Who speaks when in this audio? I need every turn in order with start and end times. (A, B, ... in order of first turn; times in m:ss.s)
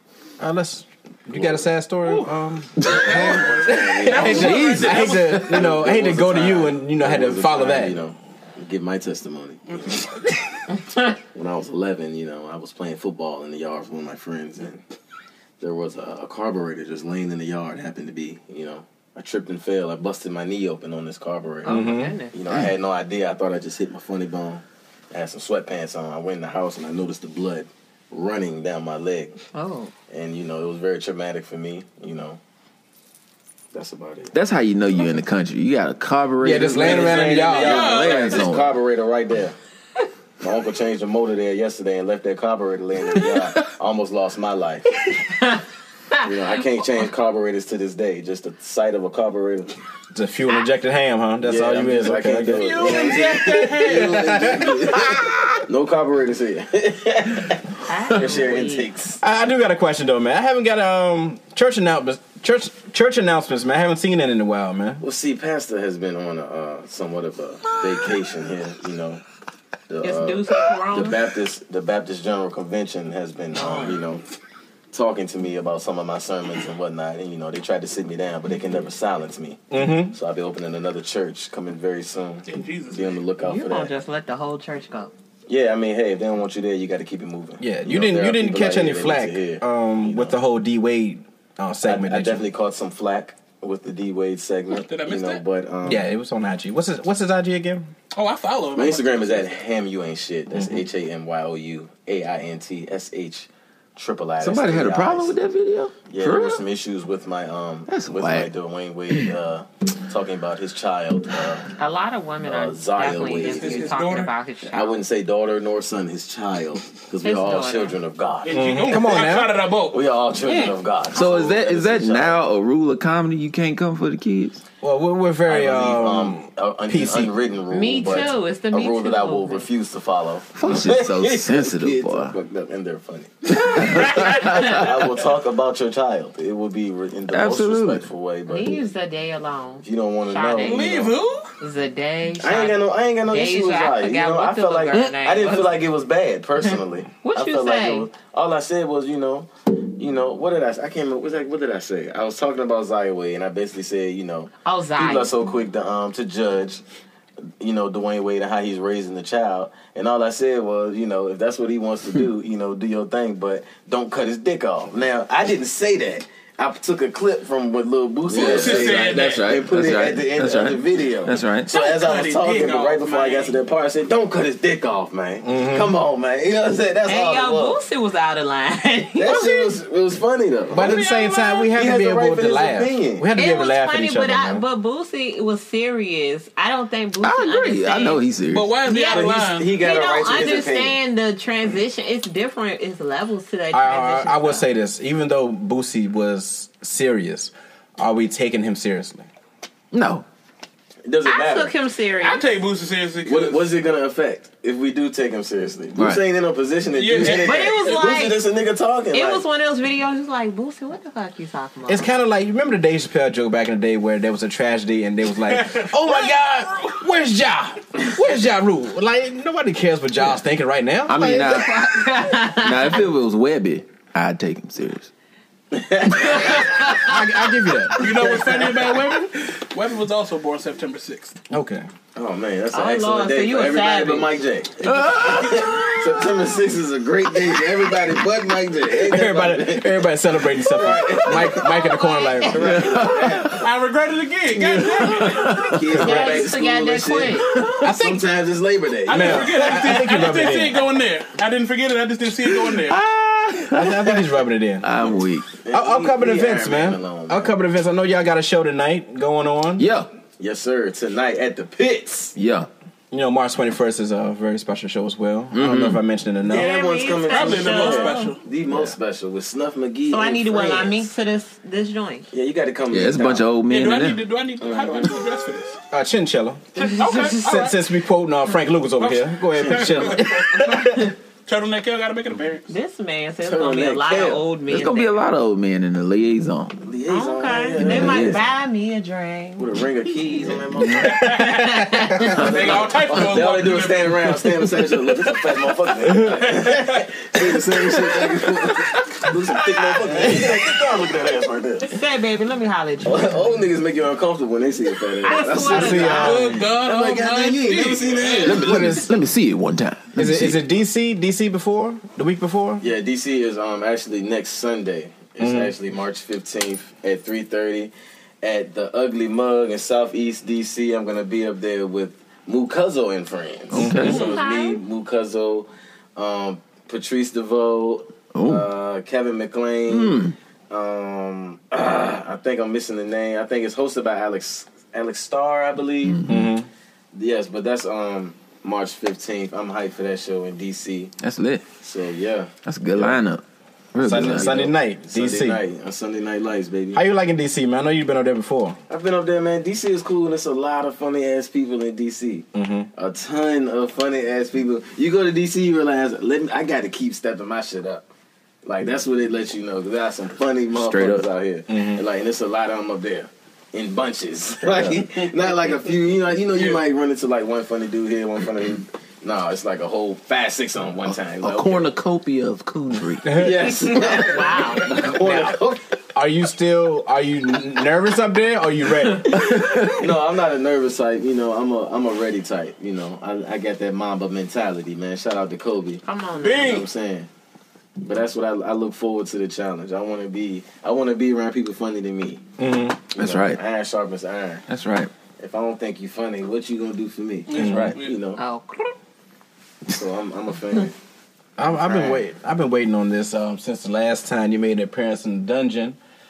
0:00.4-0:08.0 A
0:01.3-0:01.6 B
0:02.0-0:05.7 C
0:02.8-0:03.4 D
0:02.8-0:10.4 B
0:04.1-0:05.4 D
0:09.7-0:10.1 C
0:11.0-0:14.8 B
0:15.6-0:29.4 B
0:21.6-0:22.3 E
0:21.6-0:22.2 A
0:29.5-0:29.9 E
0:30.1-0:32.4 B
0:33.7-0:34.3 B
0:34.3-0:38.8 D
0:36.4-0:38.0 A
0:36.6-0:39.6 B
0:37.5-0:38.5 C
0:40.4-0:44.9 B
0:46.2-0:49.7 B
0:50.1-0:55.6 A
0:51.4-0:59.2 B
0:52.5-0:54.6 C
0:57.8-0:58.9 E
0:59.2-1:05.0 A
1:05.0-1:09.2 B
1:09.9-1:14.2 B
1:10.0-1:11.2 E
1:13.5-1:14.0 E
1:14.9-1:23.9 B
1:19.7-1:20.1 A
1:22.4-1:23.2 C
1:23.4-1:25.1 E
1:25.5-1:30.3 B
1:27.6-1:32.4 A
1:31.8-1:36.0 B
1:34.7-1:35.4 C
1:35.8-1:37.9 A
1:38.1-1:39.5 C
1:38.7-1:45.3 B
1:40.5-1:40.8 A
1:44.4-1:46.6 D
1:46.1-1:51.7 B
1:47.9-1:48.5 D
1:51.8-1:55.0 E
1:52.4-1:53.9 B
1:53.4-1:54.3 C
1:54.7-1:59.3 B
1:57.2-1:58.0 E
1:58.4-2:00.1 C
1:58.5-1:59.6 A
1:59.9-2:02.4 B
2:00.4-2:01.4 E
2:01.1-2:04.6 D
2:04.8-2:07.3 A
2:05.5-2:18.9 B
2:07.7-2:09.7 E
2:10.5-2:12.4 D
2:13.6-2:15.0 D
2:17.3-2:18.1 D
2:18.5-2:20.9 E
2:19.8-2:21.1 B
2:20.6-2:21.5 C
2:21.6-2:25.8 E
2:22.4-2:36.8 B
2:27.2-2:28.1 E
2:34.6-2:35.3 E
2:37.6-2:57.8 B
2:48.3-2:51.7 D
2:48.3-2:49.5 C
2:51.7-2:53.6 C
2:55.4-2:55.9 A
2:57.0-2:59.7 E
2:59.2-3:01.1 B
3:00.7-3:04.6 A
3:00.8-3:01.7 C
3:01.7-3:03.3 B
3:03.3-3:08.2 E
3:07.2-3:08.8 D
3:08.5-3:09.7 C
3:08.8-3:14.6 E
3:09.0-3:11.0 B
3:13.7-3:19.3 A
3:19.9-3:20.2 D
3:21.0-3:21.7 B
3:21.2-3:22.4 E
3:22.2-3:23.7 C
3:23.2-3:29.4 B
3:25.9-3:26.2 D
3:26.9-3:28.1 C
3:27.2-3:28.4 E
3:29.1-3:32.1 E
3:31.9-3:41.6 A
3:35.4-3:37.0 C
3:41.1-3:41.8 D
3:41.4-3:43.0 E
3:42.3-3:45.1 D
3:45.7-3:47.0 B
3:46.2-3:47.2 E
3:47.0-3:48.2 A
3:48.0-3:51.4 C
3:48.0-3:48.9 B
3:51.5-3:51.9 A
3:52.1-4:01.7 B
3:52.7-3:54.4 E
3:54.8-3:56.4 D
3:58.9-4:02.8 A
4:01.2-4:02.5 E
4:02.5-4:03.6 B
4:02.6-4:03.6 D
4:03.4-4:05.7 C
4:05.0-4:06.2 D
4:05.5-4:09.8 B
4:06.0-4:07.5 E
4:06.0-4:06.4 A
4:07.8-4:08.2 A
4:09.0-4:13.0 C
4:09.1-4:10.8 A
4:12.7-4:14.3 D
4:13.6-4:14.9 A
4:14.8-4:15.6 D
4:15.6-4:17.5 B
4:15.7-4:19.8 A
4:19.8-4:20.1 D
4:20.4-4:22.3 B
4:22.3-4:22.7 D
4:23.1-4:26.7 A
4:25.5-4:26.0 D
4:26.5-4:31.1 B
4:26.5-4:28.3 E
4:27.1-4:28.4 C
4:28.7-4:28.9 A
4:30.1-4:32.3 E
4:32.3-4:33.5 B
4:32.9-4:34.2 D
4:33.7-4:35.8 C
4:34.6-4:35.1 B
4:35.9-4:41.1 A
4:36.8-4:37.8 C
4:39.0-4:42.7 C
4:39.6-4:40.2 B
4:42.7-4:45.2 E
4:43.4-4:44.4 B
4:44.7-4:46.8 D
4:46.8-4:48.4 B
4:47.1-4:49.7 E
4:47.7-4:48.4 D
4:49.6-4:51.3 B
4:50.3-4:50.6 E
4:50.9-4:54.3 C
4:51.0-4:52.3 A
4:51.1-4:52.4 E
4:52.3-5:01.9 B
4:56.0-4:56.5 A
4:56.2-4:57.1 C
4:58.7-4:59.8 C
5:00.1-5:00.5 A
5:01.9-5:03.5 E
5:03.0-5:09.1 B
5:05.2-5:06.5 E
5:05.5-5:06.7 A
5:06.0-5:08.7 C
5:08.4-5:10.6 D
5:08.4-5:09.1 A
5:10.1-5:12.8 A
5:12.8-5:36.3 B
5:15.4-5:15.7 A
5:23.7-5:24.2 D
5:23.7-5:24.2 A
5:24.0-5:24.8 E
5:28.3-5:28.7 D
5:29.9-5:30.3 D
5:36.0-5:36.5 D
5:36.3-5:36.7 A
5:37.1-5:41.1 B
5:41.2-5:41.7 D
5:41.8-5:43.2 B
5:42.6-5:44.7 D
5:44.0-5:45.6 A
5:44.0-5:47.0 B
5:46.9-5:48.8 A
5:48.9-5:58.0 B
5:52.5-5:52.9 A
5:58.6-6:11.9 B
6:00.7-6:01.3 D
6:01.7-6:02.0 A
6:04.6-6:05.1 A
6:06.6-6:06.8 C
6:11.1-6:13.5 D
6:13.2-6:13.8 A
6:13.3-6:15.8 B
6:13.7-6:15.0 E
6:14.9-6:15.5 A
6:16.1-6:19.8 A
6:19.3-6:20.0 D
6:19.4-6:26.0 B
6:26.0-6:26.8 E
6:26.4-6:26.9 C
6:26.6-6:27.3 B
6:28.0-6:32.4 B
6:32.6-6:33.0 A
6:33.1-6:34.6 B
6:33.2-6:33.6 D
6:34.7-6:35.1 D
6:35.4-6:38.4 B
6:37.5-6:38.2 C
6:37.5-6:37.9 A
6:37.6-6:38.0 D
6:38.4-6:38.9 E
6:39.9-6:40.9 B
6:41.6-6:46.0 A
6:41.6-6:42.2 B